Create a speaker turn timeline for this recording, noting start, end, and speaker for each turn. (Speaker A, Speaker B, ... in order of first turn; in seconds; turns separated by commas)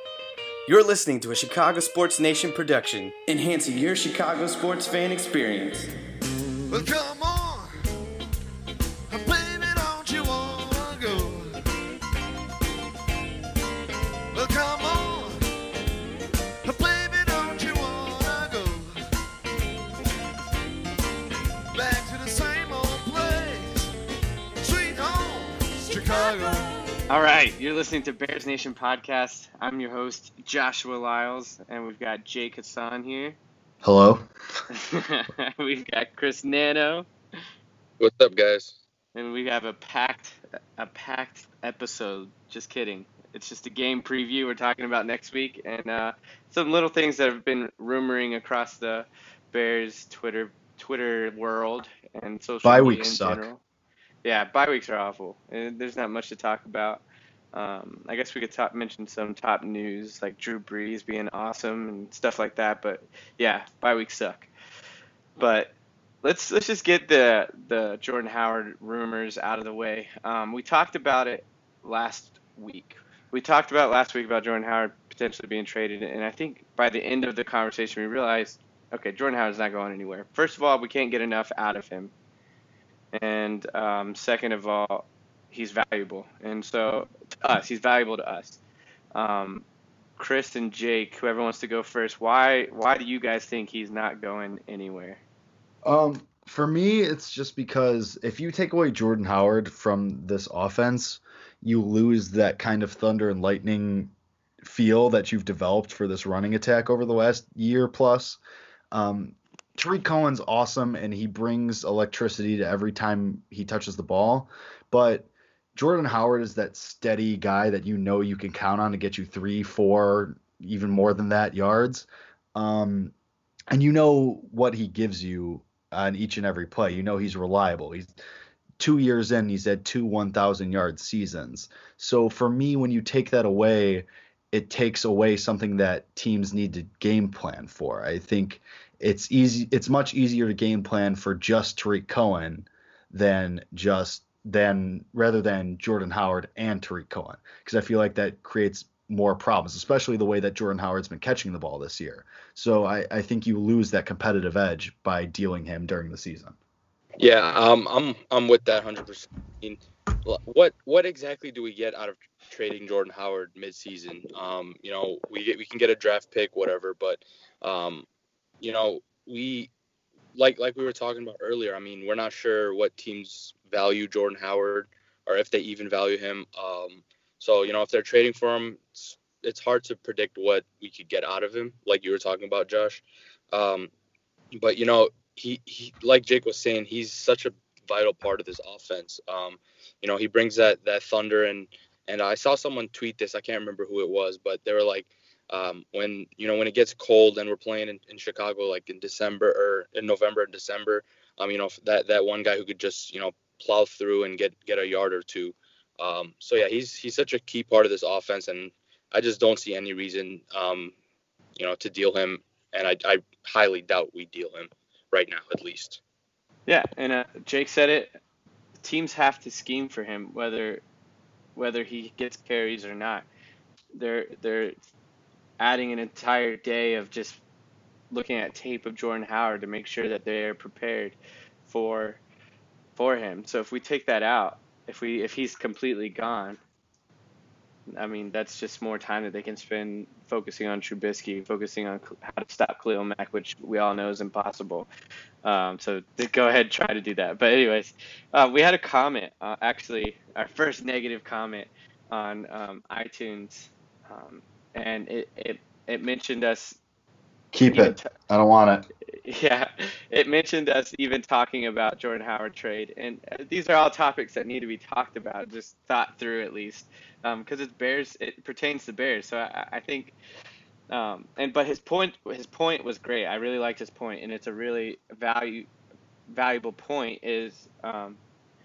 Speaker A: 0.7-5.9, Speaker B: 6.7-7.7, Speaker B: 9.1-11.6, Speaker B: 14.3-15.4, Speaker B: 16.7-19.0, Speaker B: 21.7-23.9, Speaker B: 24.6-26.7, Speaker C: 27.1-33.4, Speaker D: 33.8-34.3, Speaker C: 34.7-37.1, Speaker E: 38.0-38.8, Speaker C: 39.1-53.6, Speaker D: 52.6-53.5, Speaker C: 54.2-57.0, Speaker C: 57.5-64.5, Speaker C: 65.4-82.1, Speaker C: 83.1-88.6, Speaker C: 89.2-89.7, Speaker C: 90.2-95.2, Speaker D: 95.8-108.4, Speaker D: 108.9-123.1, Speaker D: 123.7-128.1, Speaker D: 128.8-156.6, Speaker E: 157.2-168.1, Speaker E: 168.6-169.7, Speaker E: 170.3-183.9, Speaker E: 184.5-210.9, Speaker E: 211.6-216.0, Speaker C: 216.7-218.2, Speaker C: 218.8-220.8, Speaker C: 221.6-223.3, Speaker C: 223.9-224.8, Speaker C: 225.6-227.4, Speaker C: 228.1-231.2, Speaker C: 231.7-232.2, Speaker C: 233.0-236.6, Speaker C: 237.9-244.9, Speaker C: 245.4-256.8, Speaker D: 257.5-258.9, Speaker C: 257.7-258.1, Speaker C: 259.1-270.1, Speaker C: 270.9-275.7, Speaker C: 276.3-278.2